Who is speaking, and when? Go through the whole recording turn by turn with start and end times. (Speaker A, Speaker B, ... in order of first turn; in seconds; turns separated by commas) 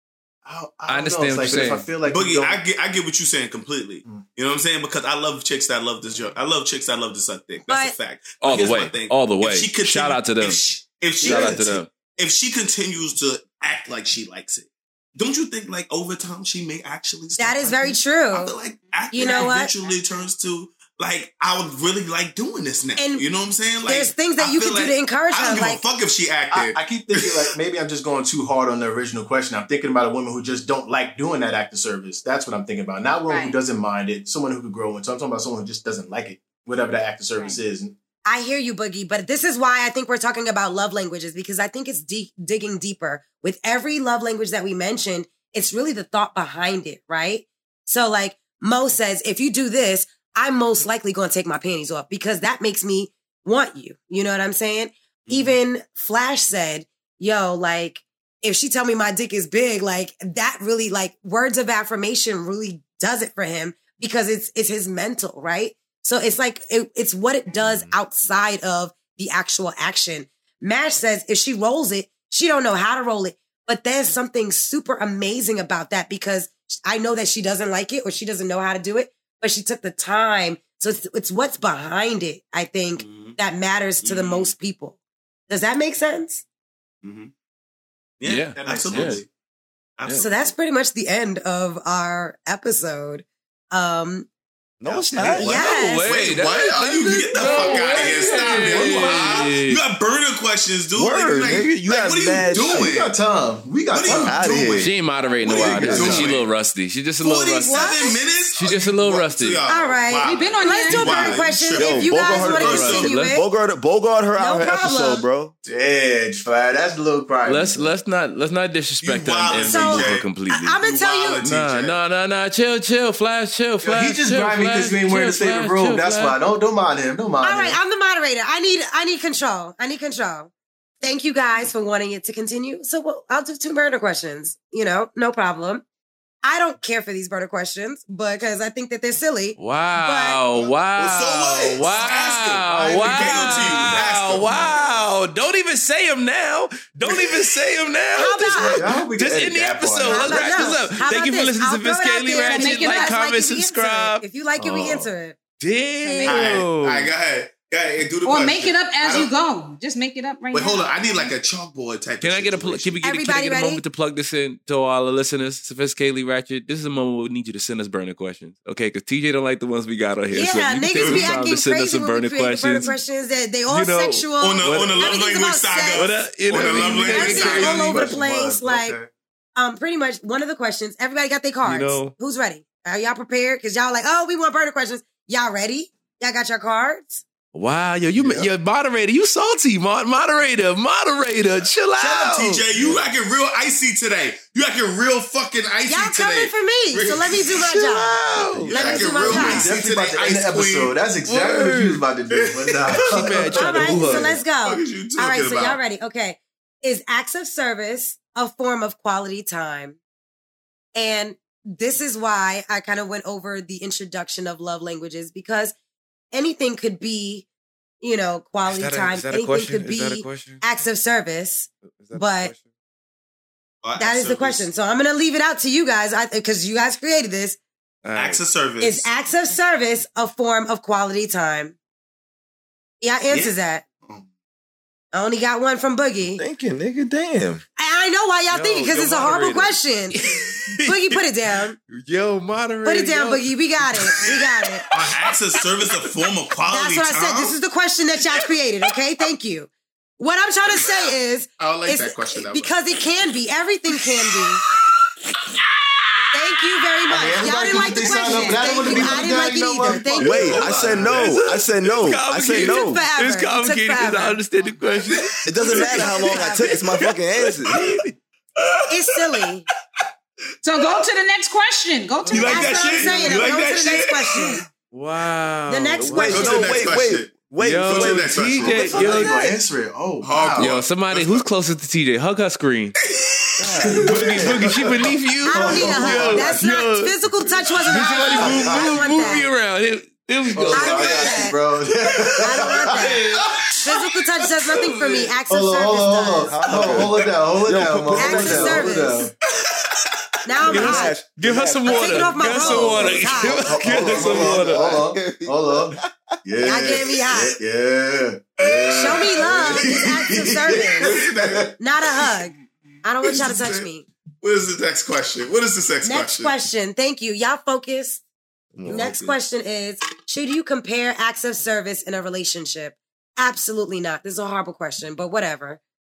Speaker A: 0.5-2.6, Speaker B: 0.9-1.9, Speaker C: 2.0-27.5, Speaker D: 7.7-8.0, Speaker B: 8.4-10.6, Speaker B: 11.2-11.9, Speaker D: 17.4-18.6, Speaker E: 18.9-20.3, Speaker D: 19.1-19.7, Speaker D: 23.0-23.2, Speaker D: 23.9-25.8, Speaker A: 26.5-38.0, Speaker E: 33.3-33.6, Speaker E: 37.4-37.6, Speaker D: 38.3-85.0, Speaker C: 55.3-55.6, Speaker F: 67.6-67.9, Speaker C: 83.0-83.4, Speaker C: 84.0-84.5, Speaker D: 85.5-86.4, Speaker C: 87.0-87.3, Speaker C: 88.2-89.3, Speaker B: 88.2-89.2, Speaker F: 88.7-89.1, Speaker C: 90.0-90.5, Speaker D: 90.2-94.3, Speaker F: 94.8-95.6, Speaker C: 94.9-103.1, Speaker B: 95.0-99.8, Speaker D: 95.4-96.0, Speaker A: 98.9-99.2, Speaker F: 101.0-102.9, Speaker A: 102.5-104.8, Speaker C: 103.9-106.5, Speaker F: 104.1-104.9, Speaker B: 104.8-109.7, Speaker A: 105.4-106.3, Speaker F: 105.5-106.2, Speaker C: 107.2-113.1, Speaker D: 107.7-108.2, Speaker D: 109.7-113.5, Speaker E: 110.2-111.5, Speaker F: 111.7-115.5, Speaker B: 112.3-113.4, Speaker D: 114.4-115.2, Speaker A: 115.7-117.9, Speaker B: 117.5-120.8, Speaker C: 119.0-120.3, Speaker D: 119.7-121.4, Speaker C: 120.8-122.0, Speaker B: 121.4-126.4, Speaker A: 123.8-127.8, Speaker D: 127.4-135.8, Speaker D: 136.4-140.4, Speaker B: 139.6-155.1, Speaker C: 141.0-144.5, Speaker A: 141.8-144.8, Speaker A: 147.1-147.5, Speaker D: 148.1-148.8, Speaker A: 148.4-150.8, Speaker D: 150.0-155.4, Speaker E: 152.4-153.2, Speaker B: 155.6-157.1, Speaker D: 156.0-156.4, Speaker C: 156.2-159.3, Speaker E: 158.3-161.3, Speaker C: 160.5-163.0, Speaker B: 162.2-173.0, Speaker D: 163.0-163.8, Speaker D: 170.3-176.1, Speaker C: 170.9-171.3, Speaker B: 173.7-175.2, Speaker C: 174.4-178.1, Speaker B: 175.9-178.0, Speaker A: 176.6-179.1, Speaker D: 176.9-179.0, Speaker D: 179.6-187.2, Speaker B: 181.7-182.2, Speaker B: 187.5-192.7, Speaker C: 192.0-197.6, Speaker D: 195.9-198.2, Speaker B: 197.7-199.7, Speaker F: 198.4-198.7, Speaker D: 198.7-199.7, Speaker C: 198.7-200.9, Speaker A: 199.2-204.3, Speaker B: 201.3-202.0, Speaker C: 202.3-203.5, Speaker B: 203.0-204.4, Speaker D: 203.5-210.0, Speaker C: 204.6-205.8, Speaker D: 210.9-215.7, Speaker D: 216.3-217.5, Speaker D: 218.0-222.5, Speaker B: 218.7-220.6, Speaker B: 221.9-222.6, Speaker C: 223.8-224.7, Speaker D: 224.0-227.6, Speaker B: 228.0-228.4, Speaker C: 228.2-229.1, Speaker D: 228.8-231.8, Speaker D: 233.0-233.8, Speaker D: 235.1-236.4, Speaker F: 236.3-237.6, Speaker D: 237.8-240.2, Speaker B: 238.5-239.6, Speaker F: 238.5-239.7, Speaker B: 240.1-241.2, Speaker D: 240.8-241.8, Speaker B: 241.9-245.9, Speaker D: 242.8-244.9, Speaker C: 244.9-247.6, Speaker D: 246.7-254.6, Speaker C: 251.6-252.8, Speaker D: 256.3-260.6, Speaker A: 257.1-261.2, Speaker E: 258.0-259.2, Speaker F: 260.2-263.0, Speaker C: 260.3-261.4, Speaker B: 261.1-265.4, Speaker D: 262.6-264.4, Speaker C: 264.8-266.3, Speaker F: 265.5-267.9, Speaker D: 266.3-266.8, Speaker B: 267.7-268.1, Speaker C: 268.6-268.8, Speaker D: 268.9-269.6, Speaker E: 270.6-273.1, Speaker C: 270.8-271.1, Speaker C: 272.3-274.6, Speaker D: 272.5-274.6, Speaker B: 274.9-276.9, Speaker D: 275.7-276.7, Speaker F: 276.0-279.5, Speaker C: 276.3-277.3, Speaker B: 277.6-279.4, Speaker C: 277.8-278.8, Speaker A: 278.5-280.8, Speaker C: 280.2-281.4, Speaker B: 280.6-283.0, Speaker C: 283.0-283.8, Speaker D: 283.6-284.0, Speaker B: 283.8-287.1, Speaker A: 283.8-286.7, Speaker D: 285.5-289.5, Speaker B: 287.9-291.4, Speaker A: 288.3-288.6, Speaker F: 288.4-289.1, Speaker A: 290.5-293.2, Speaker D: 290.7-291.6, Speaker C: 290.9-291.4, Speaker D: 292.4-293.2, Speaker B: 293.0-293.6, Speaker C: 293.4-293.9, Speaker D: 293.9-296.6, Speaker A: 295.5-299.3, Speaker F: 296.5-299.0, Speaker D: 298.1-299.2, Speaker C: 299.6-300.1, Speaker D: 300.4-301.2, Speaker F: 300.6-306.4, Speaker B: 300.6-305.1, Speaker D: 301.9-303.6, Speaker A: 303.6-311.7, Speaker D: 306.6-307.6, Speaker C: 308.6-309.3, Speaker D: 308.9-311.1, Speaker C: 309.8-310.3, Speaker C: 311.0-311.7, Speaker D: 311.8-314.1, Speaker E: 312.5-313.0, Speaker C: 313.2-313.9, Speaker C: 314.4-316.6, Speaker D: 316.0-318.2, Speaker F: 318.8-319.1, Speaker C: 318.8-319.4, Speaker D: 318.9-325.8